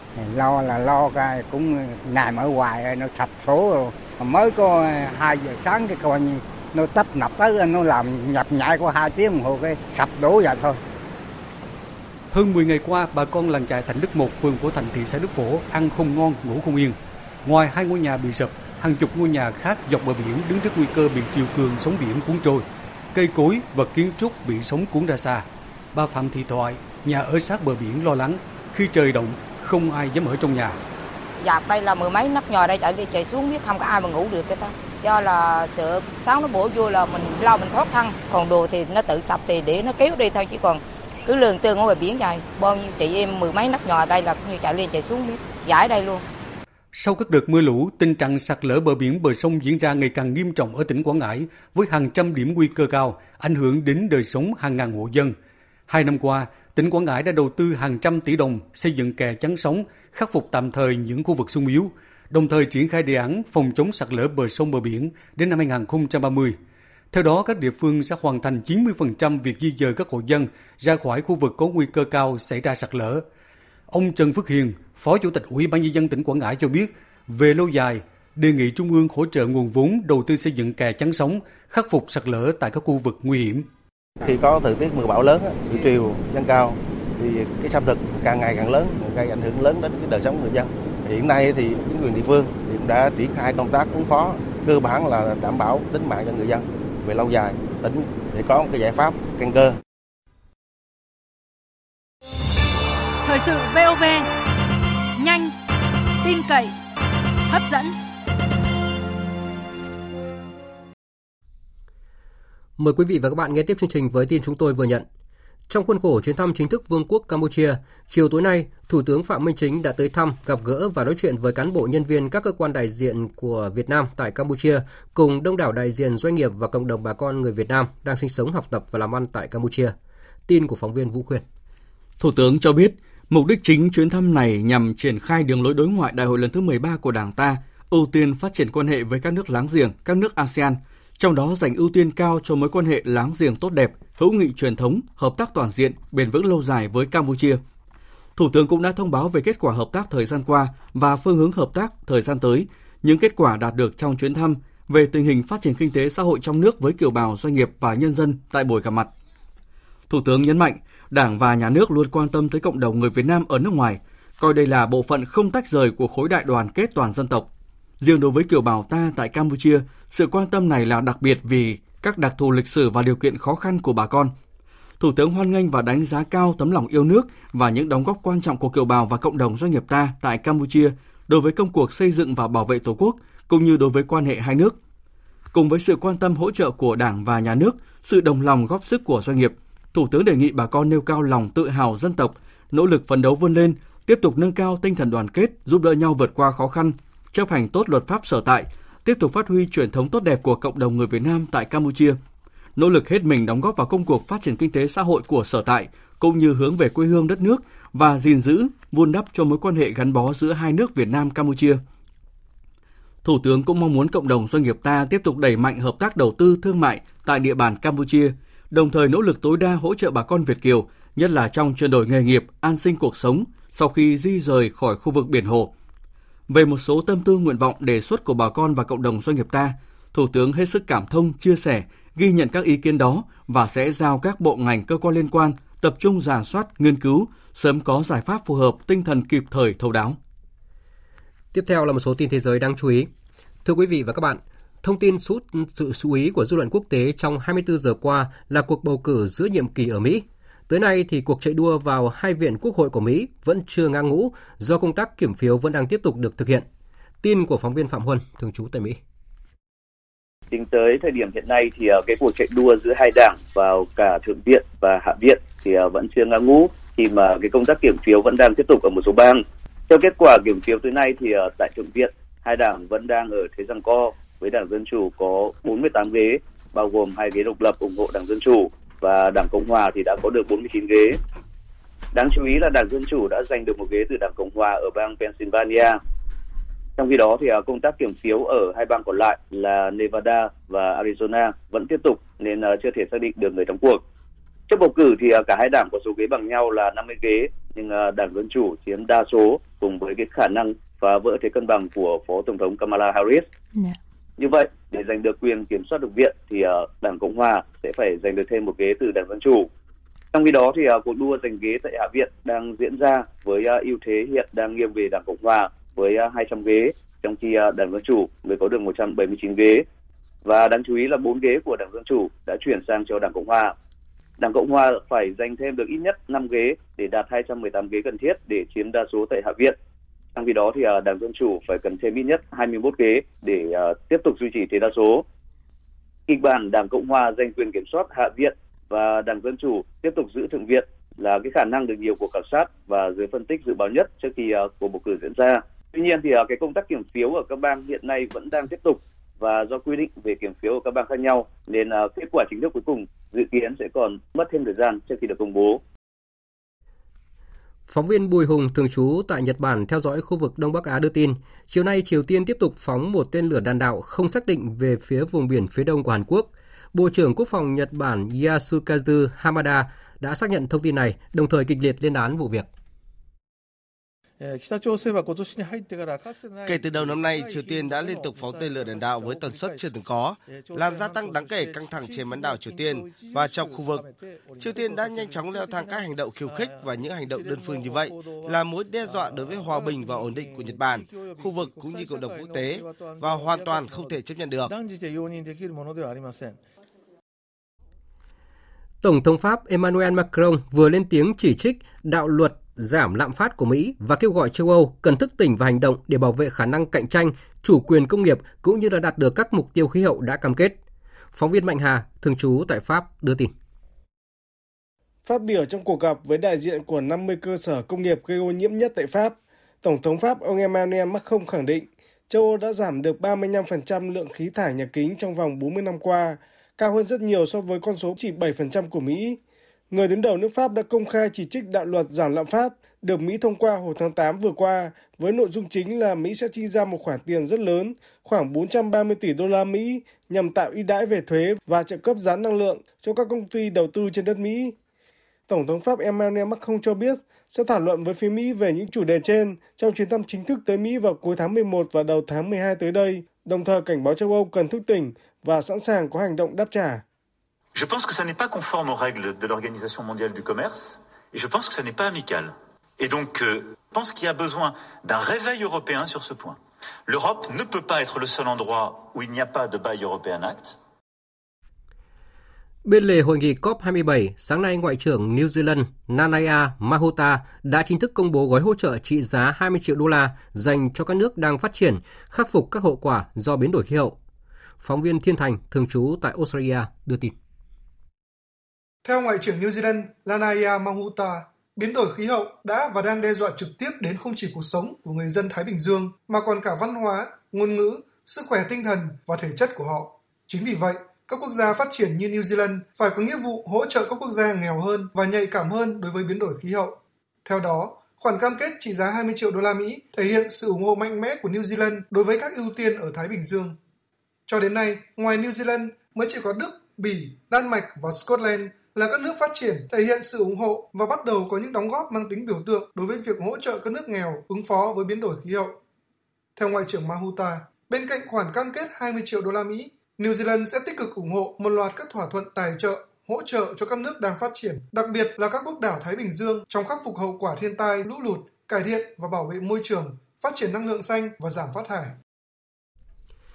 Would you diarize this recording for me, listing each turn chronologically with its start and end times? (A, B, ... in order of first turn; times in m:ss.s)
0:00.2-0:10.8 A
0:12.3-0:30.8 B
0:31.4-0:46.2 C
0:47.0-0:55.4 B
0:55.9-1:06.6 B
1:07.1-1:13.2 B
1:13.9-1:23.7 B
1:24.2-1:26.7 D
1:27.2-1:39.7 D
1:43.2-1:44.3 E
1:45.2-1:45.5 E
1:46.2-1:46.8 E
1:47.5-1:48.0 E
1:52.8-1:55.0 F
1:55.7-2:10.0 F
2:10.5-2:11.4 F
2:12.2-2:27.6 G
2:28.4-2:39.1 G
2:40.1-2:47.5 G
2:48.0-2:54.3 G
2:55.0-3:04.8 G
3:05.5-3:22.2 G
3:22.8-3:31.8 G
3:33.2-3:45.7 G
3:46.5-4:00.2 G
4:01.5-4:03.1 F
4:03.6-4:16.7 F
4:17.2-4:19.0 F
4:20.5-4:41.2 H
4:42.1-4:46.0 H
4:47.0-4:54.0 H
4:54.7-5:03.5 H
5:04.4-5:09.7 H
5:10.3-5:19.8 H
5:20.4-5:23.7 H
5:24.4-5:29.8 H
5:30.4-5:35.2 H
5:36.3-5:55.8 H
5:57.9-6:12.7 F
6:14.4-6:19.8 I
6:16.7-6:17.8 D
6:18.3-6:18.6 D
6:20.5-6:36.6 I
6:30.4-6:30.6 D
6:39.0-6:50.8 F
6:51.3-6:53.5 F
6:55.3-7:09.4 J
7:09.9-7:24.8 J
7:25.5-7:37.0 J
7:37.8-7:40.7 K
7:41.4-7:42.4 K
7:43.0-7:43.4 K
7:44.0-7:44.6 K
7:45.1-7:46.5 K
7:47.1-7:48.6 K
7:52.8-8:04.2 F
8:04.8-8:07.3 F
8:09.0-8:33.8 L
8:34.5-8:45.8 L
8:46.6-9:02.2 L